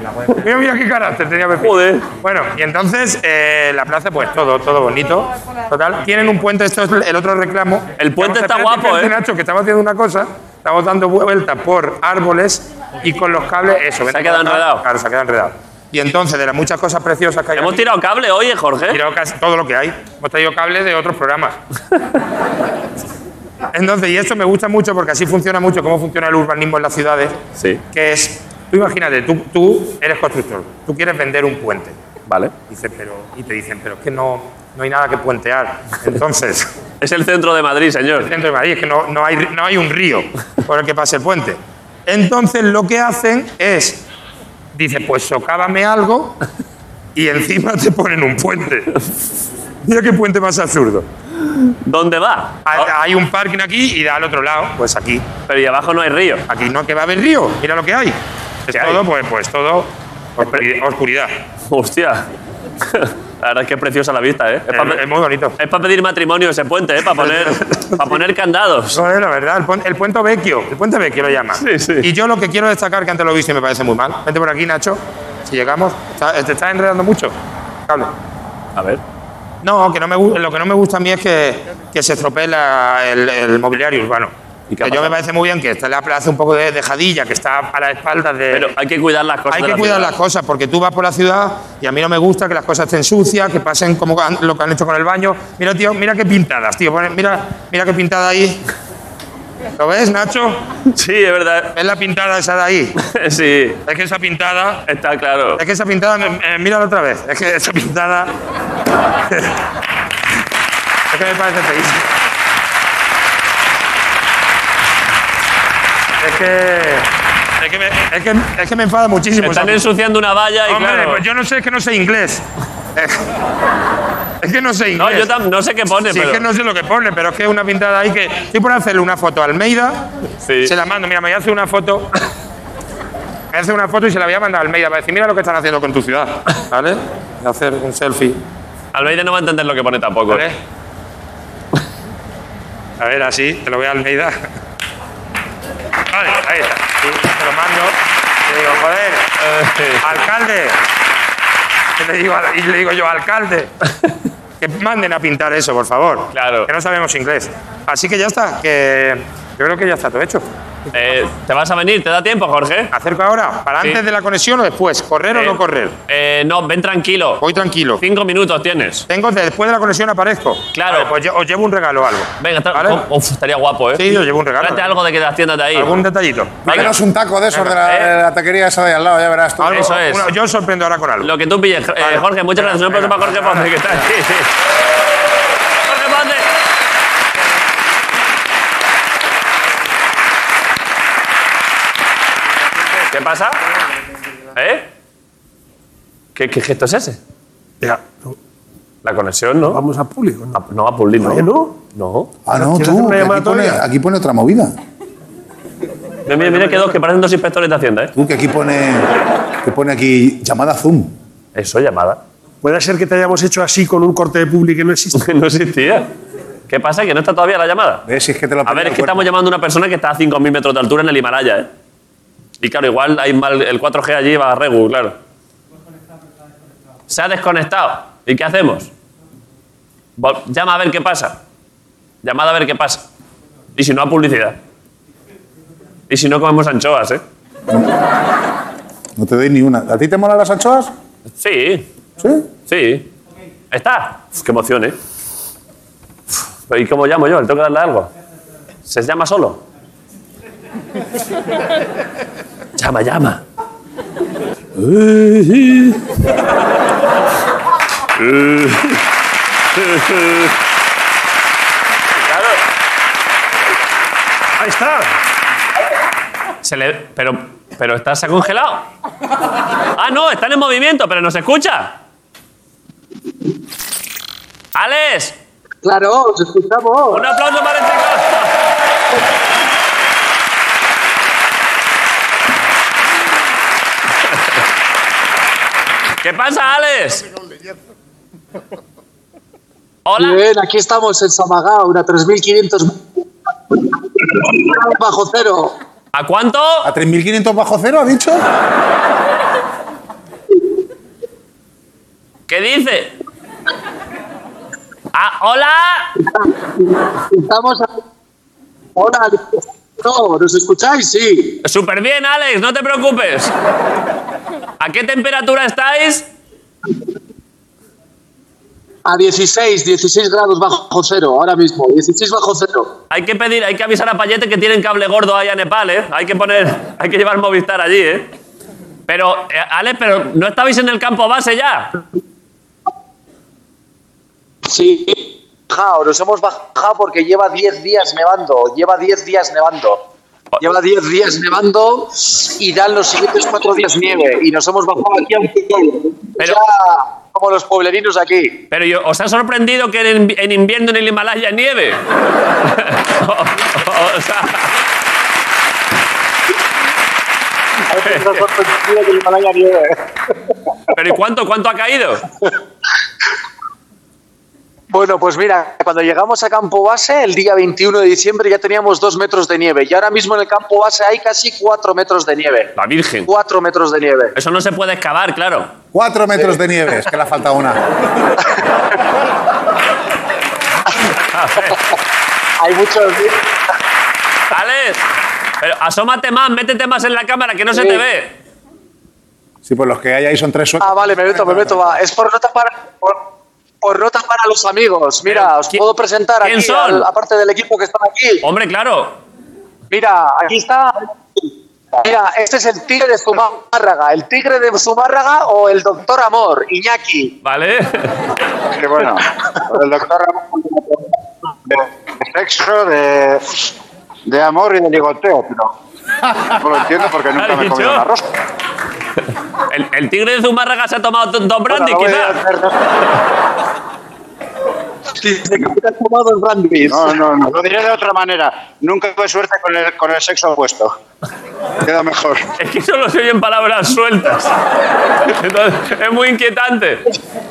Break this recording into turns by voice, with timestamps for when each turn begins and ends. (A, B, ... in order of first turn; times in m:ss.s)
0:00.4-0:17.9 A
0:01.6-0:02.1 B
0:08.0-0:09.1 B
0:14.1-0:14.9 B
0:17.6-0:19.0 B
0:18.9-0:21.6 A
0:23.7-0:27.4 A
0:27.9-0:32.0 A
0:32.3-0:32.5 B
0:32.7-0:36.7 A
0:37.0-0:38.3 B
0:38.2-0:44.0 A
0:44.7-0:46.4 A
0:47.2-0:48.9 A
0:49.8-0:51.1 A
0:51.4-0:52.9 B
0:52.7-0:55.3 A
0:55.5-0:56.5 B
0:56.5-1:01.4 A
0:58.7-0:59.0 B
1:01.7-1:02.3 B
1:02.8-1:05.0 B
1:04.7-1:05.6 A
1:05.6-1:09.0 B
1:07.1-1:08.2 A
1:08.9-1:17.3 A
1:11.6-1:12.1 B
1:17.9-1:18.1 A
1:18.8-1:19.0 B
1:19.6-1:24.3 A
1:24.7-1:25.2 B
1:24.8-1:28.7 A
1:28.5-1:30.2 B
1:29.5-1:38.6 A
1:39.8-1:40.6 A
1:40.9-1:41.7 B
1:41.8-1:42.9 A
1:43.0-1:43.8 B
1:43.9-1:44.8 A
1:44.9-1:45.6 B
1:45.6-1:48.3 A
1:49.3-1:49.6 A
1:51.1-1:52.1 A
1:56.2-1:57.1 A
1:57.6-1:59.8 A
1:59.4-2:01.2 B
2:00.7-2:02.4 A
2:03.0-2:03.2 A
2:04.4-2:05.3 A
2:05.0-2:06.4 B
2:06.1-2:10.0 A
2:10.4-2:10.7 B
2:10.6-2:12.1 A
2:13.5-2:18.4 A
2:18.9-2:20.4 B
2:20.3-2:20.6 A
2:23.0-2:24.4 A
2:26.1-2:29.3 A
2:29.4-2:30.2 B
2:30.0-2:30.8 A
2:32.0-2:33.7 A
2:34.6-2:40.4 A
2:36.3-2:36.7 B
2:40.9-2:42.9 B
2:42.9-2:46.0 A
2:45.3-2:47.4 B
2:47.4-2:48.0 A
2:48.0-2:49.1 B
2:49.1-2:53.0 A
2:50.7-2:51.1 B
2:52.4-2:55.9 B
2:54.0-2:55.0 A
2:55.8-2:56.9 A
2:56.6-3:00.0 C
2:56.7-2:56.9 B
2:57.5-2:57.8 A
2:57.8-2:58.1 B
2:59.6-3:01.3 A
2:59.7-3:00.3 B
3:01.2-3:04.5 B
3:02.0-3:04.0 A
3:05.8-3:06.5 B
3:13.1-3:13.6 B
3:14.6-3:14.9 B
3:16.4-3:17.2 B
3:17.8-3:18.4 D
3:19.0-3:19.8 B
3:19.7-3:20.6 D
3:20.5-3:22.3 B
3:21.2-3:21.8 D
3:22.5-3:24.8 C
3:22.5-3:23.8 D
3:26.3-3:28.1 B
3:26.4-3:26.9 D
3:28.2-3:29.1 C
3:29.6-3:31.2 C
3:31.6-3:32.2 B
3:32.6-3:35.2 D
3:35.2-3:36.1 B
3:36.7-3:38.0 B
3:38.1-3:39.3 C
3:38.7-3:41.7 B
3:42.6-3:45.2 B
3:47.1-3:48.9 B
3:50.2-3:51.4 B
3:52.2-3:53.0 B
3:53.8-3:54.6 B
3:56.1-3:57.2 B
3:59.2-4:00.9 C
4:01.4-4:01.9 B
4:02.2-4:02.4 C
4:02.7-4:03.1 B
4:03.7-4:05.0 B
4:06.7-4:08.1 B
4:08.9-4:09.6 B
4:12.8-4:13.4 B
4:14.8-4:16.0 B
4:18.2-4:19.0 B
4:19.7-4:20.6 B
4:22.2-4:22.6 B
4:24.6-4:25.1 D
4:26.6-4:28.9 B
4:30.0-4:32.0 B
4:34.8-4:35.4 B
4:35.8-4:37.3 E
4:37.1-4:38.5 B
4:46.2-4:47.3 B
4:50.1-4:50.4 B
4:50.2-4:53.0 E
4:54.2-4:55.8 E
4:56.1-4:56.9 B
4:56.8-4:58.4 C
5:02.5-5:03.1 B
5:05.1-5:06.1 B
5:07.1-5:08.0 E
5:09.0-5:11.6 E
5:11.6-5:13.5 B
5:14.8-5:16.3 B
5:19.0-5:22.9 E
5:23.1-5:28.3 B
5:29.1-5:32.0 B
5:34.7-5:40.0 E
5:40.6-5:48.6 E
5:48.7-5:52.0 B
5:52.6-5:54.7 B
5:57.9-6:00.1 E
5:58.0-5:58.4 B
6:00.9-6:02.2 B
6:04.9-6:12.7 E
6:12.8-6:13.3 B
6:13.2-6:14.3 E
6:14.4-6:15.7 B
6:15.9-6:17.8 C
6:21.3-6:21.8 B
6:22.6-6:23.5 E
6:24.5-6:25.0 B
6:25.6-6:28.3 B
6:27.7-6:28.0 E
6:29.6-6:31.7 C
6:30.8-6:33.2 E
6:33.8-6:38.4 E
6:35.3-6:35.8 B
6:36.4-6:37.1 B
6:38.4-6:39.2 B
6:39.9-6:47.4 E
6:47.4-6:48.3 B
6:48.7-6:51.0 F
6:51.6-6:53.7 F
6:54.3-6:55.7 F
6:56.4-6:58.2 F
6:57.4-6:58.1 B
6:59.7-7:02.4 B
7:01.8-7:02.6 F
7:05.2-7:07.2 E
7:06.9-7:11.0 F
7:11.8-7:12.4 F
7:12.6-7:14.5 B
7:15.2-7:17.0 B